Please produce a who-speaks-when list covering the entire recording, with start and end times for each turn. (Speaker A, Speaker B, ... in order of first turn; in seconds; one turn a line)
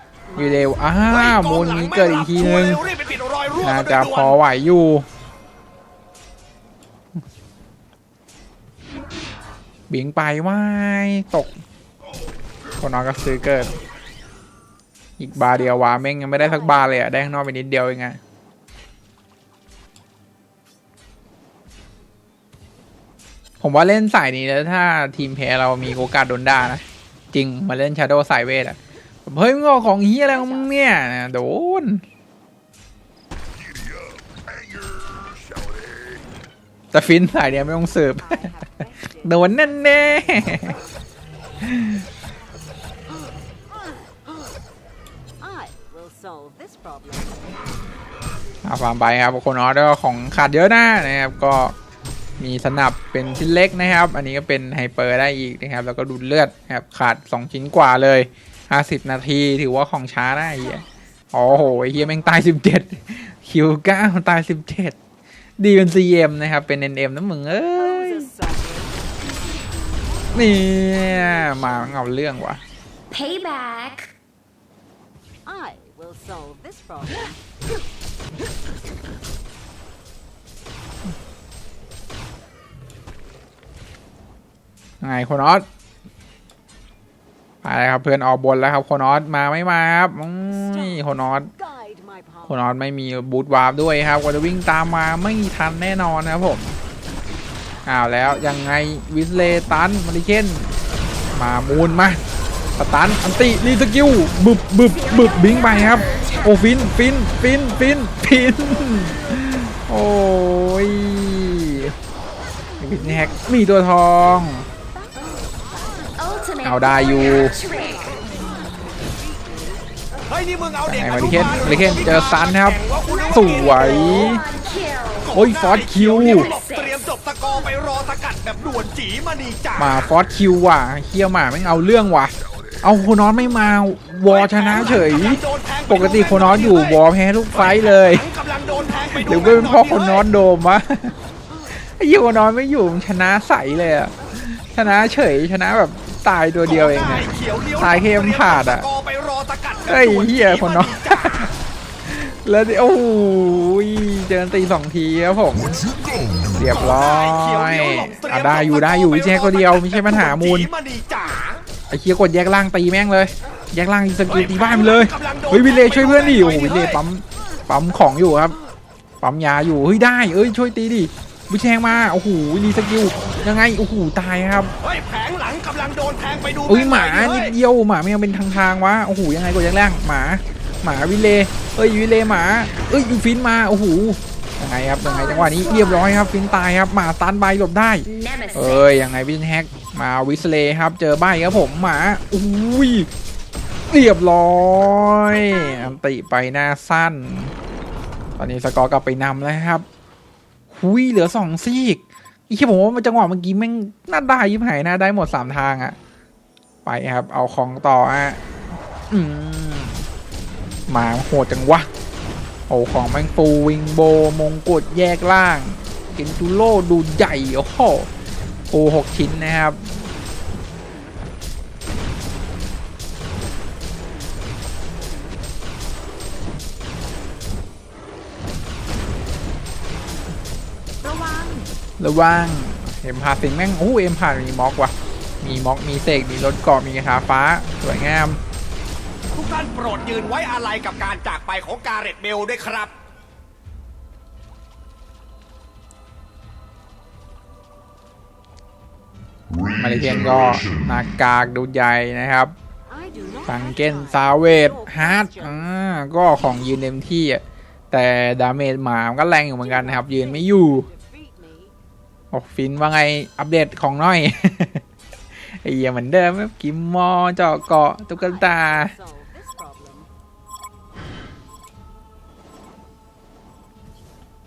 Speaker A: 0.3-1.4
Speaker B: 0.3-2.8
Speaker C: 1.1-4.3
Speaker B: 3.6-5.0
Speaker B: 9.9-11.5
Speaker B: 12.8-13.7
Speaker B: 15.2-18.2
Speaker A: 15.3-17.3
Speaker B: 23.6-32.0
Speaker A: 30.3-30.7
Speaker D: 33.6-36.2
Speaker B: 36.9-38.5
Speaker A: 38.2-41.0
Speaker B: 39.2-40.8
Speaker B: 41.6-42.0
Speaker A: 43.8-44.0
Speaker A: 45.4-47.5
Speaker B: 48.6-51.7
Speaker B: 52.4-65.0
Speaker A: 60.1-62.5
Speaker B: 65.6-68.3
Speaker A: 67.7-72.0
Speaker B: 70.3-72.6
Speaker E: 73.1-74.1
Speaker A: 75.4-77.4
Speaker B: 85.0-85.7
Speaker B: 87.6-91.5
Speaker A: 90.5-92.6
Speaker B: 92.5-96.8
Speaker B: 97.8-100.7
Speaker B: 101.3-102.2
Speaker B: 102.8-111.9
Speaker E: 104.9-106.7
Speaker A: 112.7-113.5
Speaker B: 112.8-114.7
Speaker A: 114.8-120.3
Speaker E: 116.2-118.4
Speaker B: 116.6-117.5
Speaker C: 120.3-124.5
Speaker B: 120.8-124.4
Speaker E: 121.4-121.8
Speaker E: 123.1-125.4
Speaker C: 125.2-130.1
Speaker B: 125.3-126.5
Speaker E: 126.1-127.1
Speaker B: 129.8-138.2
Speaker C: 134.2-137.0
Speaker C: 137.5-140.2
Speaker A: 138.6-138.9
Speaker B: 139.1-141.1
Speaker B: 141.8-148.9
Speaker C: 146.6-151.5
Speaker B: 149.9-151.5
Speaker B: 152.0-155.7
Speaker D: 155.5-157.1
Speaker A: 155.6-156.2
Speaker B: 156.5-160.7
Speaker C: 156.6-161.6
Speaker B: 161.9-168.6
Speaker C: 164.2-167.0
Speaker B: 169.2-174.7
Speaker C: 174.8-177.5
Speaker B: 176.7-193.1
Speaker E: 185.0-186.1
Speaker E: 188.0-188.9
Speaker B: 193.9-197.5
Speaker E: 195.5-195.8
Speaker B: 198.4-199.8
Speaker B: 200.7-206.0
Speaker B: 206.8-208.4
Speaker B: 209.1-210.0
Speaker B: 210.9-211.9
Speaker B: 212.7-218.1
Speaker B: 218.7-219.9
Speaker E: 231.0-231.6
Speaker B: 232.0-238.4
Speaker C: 239.3-242.9
Speaker D: 249.5-251.0
Speaker B: 249.8-252.5
Speaker A: 252.9-255.7
Speaker B: 253.5-260.9
Speaker A: 259.6-261.7
Speaker B: 262.3-264.8
Speaker B: 265.6-268.9
Speaker A: 268.1-270.1